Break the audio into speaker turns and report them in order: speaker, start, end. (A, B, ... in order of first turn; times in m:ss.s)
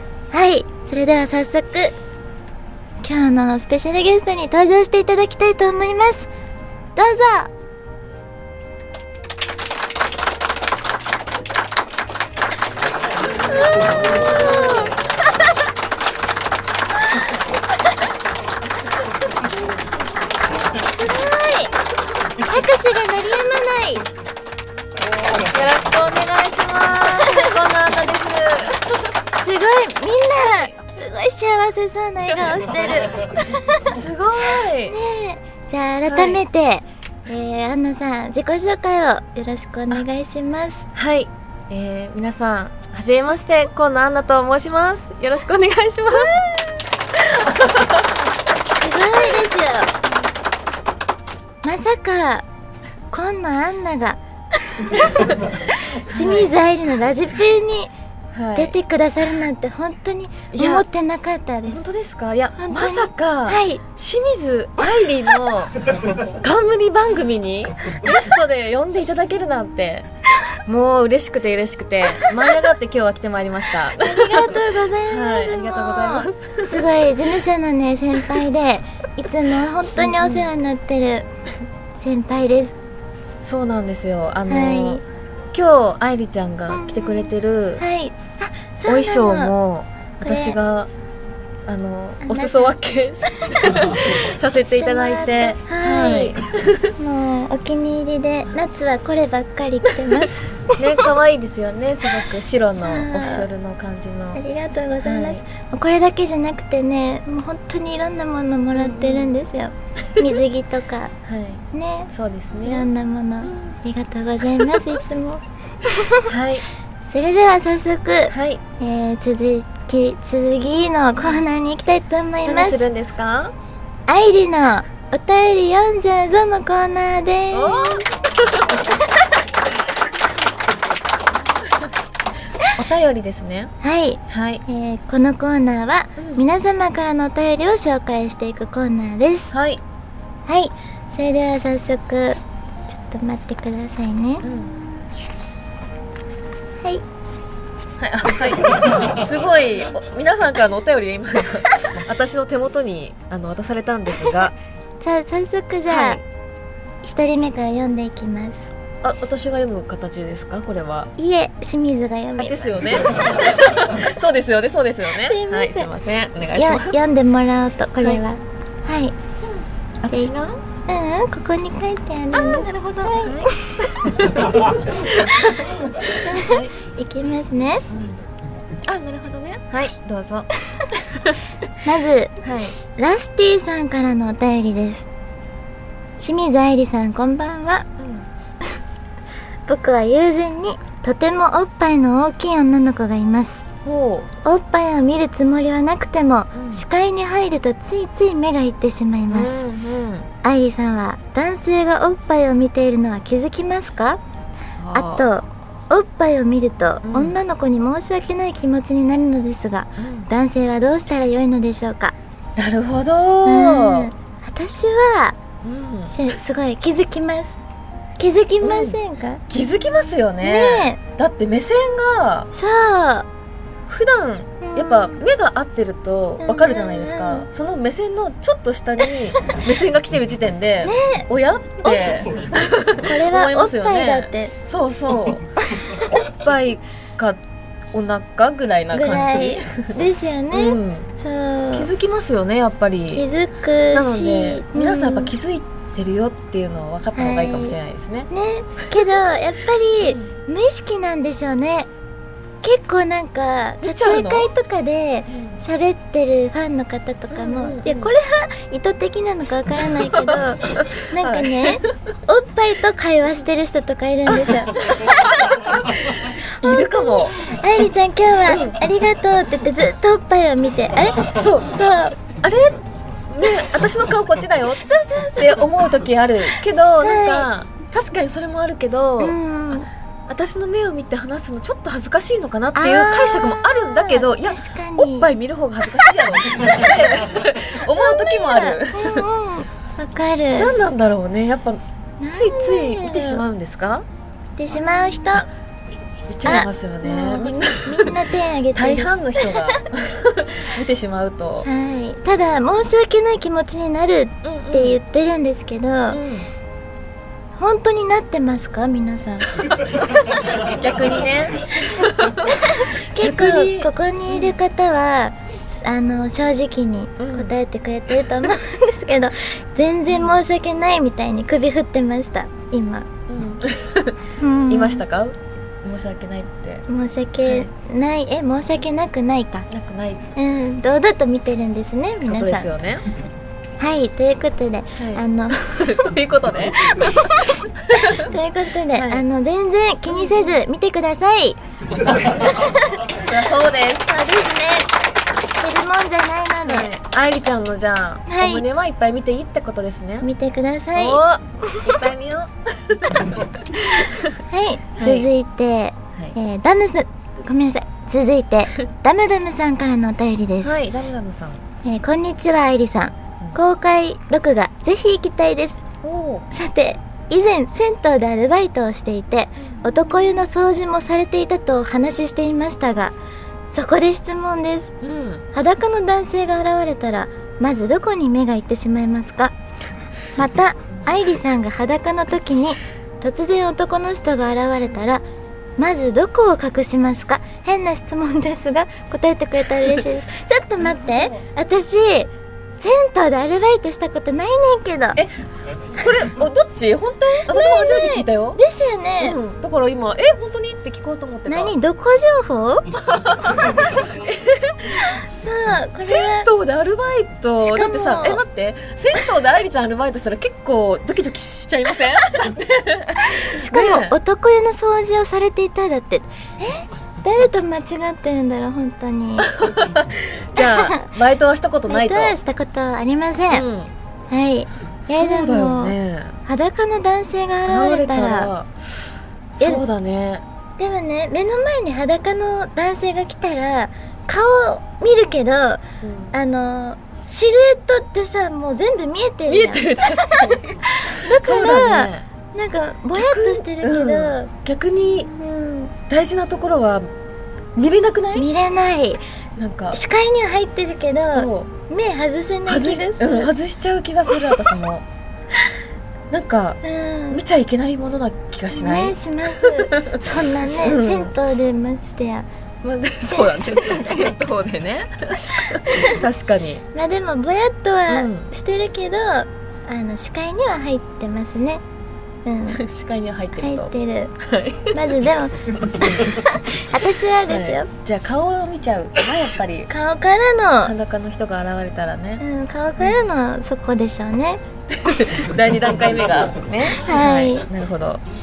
0:00.3-0:02.0 A
0:03.0-0:06.3 A
0:07.0-0:07.5 A
0:13.3-0:15.1 A
0:13.7-0:14.9 B
0:17.1-0:17.6 A
0:20.8-0:21.7 A
0:22.4-0:24.1 A
0:25.2-0:28.8 B
0:29.4-0:34.0 A
0:33.9-0:35.0 B
0:34.9-0:40.9 A
0:36.1-0:36.4 B
0:41.0-0:46.4 B
0:46.2-0:46.7 A
0:47.2-0:48.1 B
0:48.6-0:49.9 A
0:49.1-0:49.4 B
0:51.6-0:52.4 A
0:53.1-0:57.9 A
0:55.0-0:55.4 B
0:56.1-0:56.5 B
0:58.3-0:58.8 B
0:58.6-1:01.8 A
1:00.5-1:00.8 B
1:01.7-1:05.8 B
1:02.6-1:03.8 A
1:06.4-1:10.1 B
1:10.7-1:17.2 B
1:12.2-1:12.7 A
1:13.9-1:21.3 A
1:20.0-1:20.5 B
1:22.0-1:22.8 A
1:23.4-1:27.8 B
1:24.5-1:25.0 A
1:26.7-1:29.5 A
1:28.9-1:30.9 B
1:30.2-1:30.6 A
1:31.7-1:36.9 B
1:32.2-1:32.8 A
1:33.3-1:34.1 A
1:34.6-1:36.4 A
1:37.0-1:40.4 A
1:40.7-1:44.4 B
1:42.7-1:43.5 A
1:44.4-1:51.1 A
1:45.0-1:45.4 B
1:48.8-1:49.3 B
1:51.2-1:52.9 B
1:51.7-1:52.1 A
1:52.6-1:56.3 A
1:53.4-1:53.7 B
1:54.6-1:54.9 B
1:56.3-1:56.7 B
1:57.1-2:02.9 A
1:58.3-1:58.6 B
2:02.4-2:03.5 B
2:04.1-2:08.0 A
2:07.5-2:09.0 B
2:12.8-2:13.7 B
2:13.8-2:19.5 A
2:14.3-2:14.6 B
2:16.2-2:16.4 B
2:19.5-2:19.8 B
2:20.5-2:24.5 A
2:24.4-2:24.7 B
2:28.0-2:34.5 B
2:35.0-2:36.2 A
2:35.9-2:36.2 B
2:37.0-2:38.7 A
2:39.0-2:41.1 B
2:41.2-2:42.7 A
2:42.4-2:47.0 B
2:45.2-2:45.9 A
2:46.5-2:49.2 A
2:50.0-2:50.6 B
2:50.9-2:54.0 A
2:52.3-2:56.7 B
2:55.4-2:57.9 A
2:57.9-2:58.2 B
2:58.8-3:01.4 B
3:01.8-3:02.4 A
3:02.4-3:02.8 B
3:03.0-3:05.1 A
3:06.2-3:07.8 A
3:08.0-3:08.3 B
3:09.7-3:13.6 A
3:13.8-3:14.3 B
3:14.4-3:19.6 A
3:16.6-3:16.8 B
3:19.3-3:20.3 B
3:20.4-3:24.2 A
3:24.8-3:25.2 B
3:24.9-3:32.2 A
3:27.0-3:27.4 B
3:30.0-3:30.3 B
3:32.6-3:34.1 B
3:33.4-3:35.4 A
3:35.6-3:36.4 B
3:36.1-3:37.6 A
3:38.2-3:39.4 A
3:38.6-3:42.5 B
3:40.4-3:41.0 A
3:42.5-3:43.3 A
3:43.9-3:57.4 B
3:44.6-3:45.2 A
3:46.4-3:47.5 A
3:50.8-3:51.3 A
3:51.8-3:52.2 A
3:53.0-3:54.5 A
3:55.6-3:56.1 A
3:57.9-3:59.9 B
3:58.9-4:01.9 A
4:00.5-4:01.1 B
4:01.7-4:03.3 B
4:03.1-4:05.3 A
4:03.9-4:08.3 B
4:07.2-4:07.8 A
4:08.3-4:11.9 A
4:10.0-4:10.3 B
4:12.6-4:25.5 A
4:13.8-4:14.5 B
4:15.3-4:15.6 B
4:17.3-4:18.1 B
4:19.9-4:21.9 B
4:24.8-4:27.4 B
4:26.3-4:32.2 A
4:28.5-4:28.7 B
4:31.3-4:31.8 B
4:32.4-4:32.8 B
4:33.3-4:39.4 B
4:34.8-4:35.6 A
4:37.0-4:37.5 A
4:39.2-4:39.9 A
4:40.3-4:49.3 B
4:42.8-4:45.3 A
4:47.9-4:50.8 A
4:50.6-4:51.8 B
4:52.2-4:53.4 A
4:52.3-4:54.0 B
4:54.6-4:55.5 A
4:56.3-5:01.7 B
4:56.4-4:59.7 A
5:01.6-5:06.2 A
5:04.4-5:05.0 B
5:06.1-5:06.5 B
5:07.6-5:09.5 A
5:10.6-5:14.6 B
5:11.8-5:23.1 A
5:17.2-5:17.5 B
5:20.1-5:20.4 B
5:23.3-5:26.8 B
5:24.4-5:25.0 A
5:26.9-5:29.7 A
5:27.4-5:27.7 B
5:29.7-5:30.3 B
5:30.4-5:32.7 A
5:32.2-5:33.1 B
5:33.8-5:36.0 A
5:35.0-5:38.4 B
5:37.0-5:41.6 A
5:38.9-5:39.2 B
5:40.1-5:40.6 B
5:43.1-5:44.2 B
5:44.0-5:44.9 A
5:45.6-5:46.9 A
5:46.7-5:50.3 B
5:48.3-5:48.6 A
5:50.2-5:52.0 A
5:51.0-5:54.4 B
5:54.5-6:00.8 A
5:55.0-5:55.3 B
6:00.6-6:01.6 B
6:01.8-6:05.8 A
6:06.0-6:06.5 B
6:06.5-6:13.2 A
6:13.7-6:14.9 A
6:15.0-6:15.4 B
6:15.5-6:19.6 A
6:20.4-6:25.2 A
6:25.8-6:35.2 A
6:30.8-6:31.4 B
6:35.9-6:38.6 B
6:37.5-6:39.4 A
6:39.2-6:41.8 B
6:41.5-6:42.9 A
6:43.0-6:45.1 B
6:45.0-6:46.5 A
6:46.0-6:54.2 B
6:47.6-6:48.4 A
6:53.4-6:59.5 A
6:59.4-7:02.4 B
7:00.6-7:01.1 A
7:01.9-7:03.6 A
7:03.5-7:03.9 B
7:04.3-7:06.0 A
7:05.1-7:06.4 B
7:06.5-7:08.5 A
7:07.7-7:08.9 B
7:09.5-7:10.4 B
7:10.8-7:15.8 A
7:16.0-7:16.4 B
7:16.3-7:24.5 A
7:19.5-7:22.3 B
7:23.1-7:25.3 B
7:25.2-7:25.9 A
7:26.1-7:27.1 B
7:27.8-7:28.5 B
7:28.4-7:29.2 A
7:29.6-7:30.0 B
7:29.9-7:33.5 A
7:31.4-7:31.7 B
7:32.7-7:35.0 B
7:36.3-7:41.3 B
7:36.8-7:37.4 A
7:38.7-7:42.5 A
7:42.8-7:46.8 B
7:43.2-7:44.4 A
7:45.7-7:46.2 A
7:46.9-7:51.8 A
7:48.1-7:48.5 B
7:52.4-7:52.8 A
7:52.7-7:55.2 B
7:53.6-7:54.4 A
7:54.9-7:57.9 A
7:55.9-7:56.3 B
7:57.5-7:59.9 B
7:59.9-8:00.9 A
8:00.8-8:02.4 B
8:02.4-8:04.6 A
8:04.9-8:08.2 B
8:06.9-8:07.7 A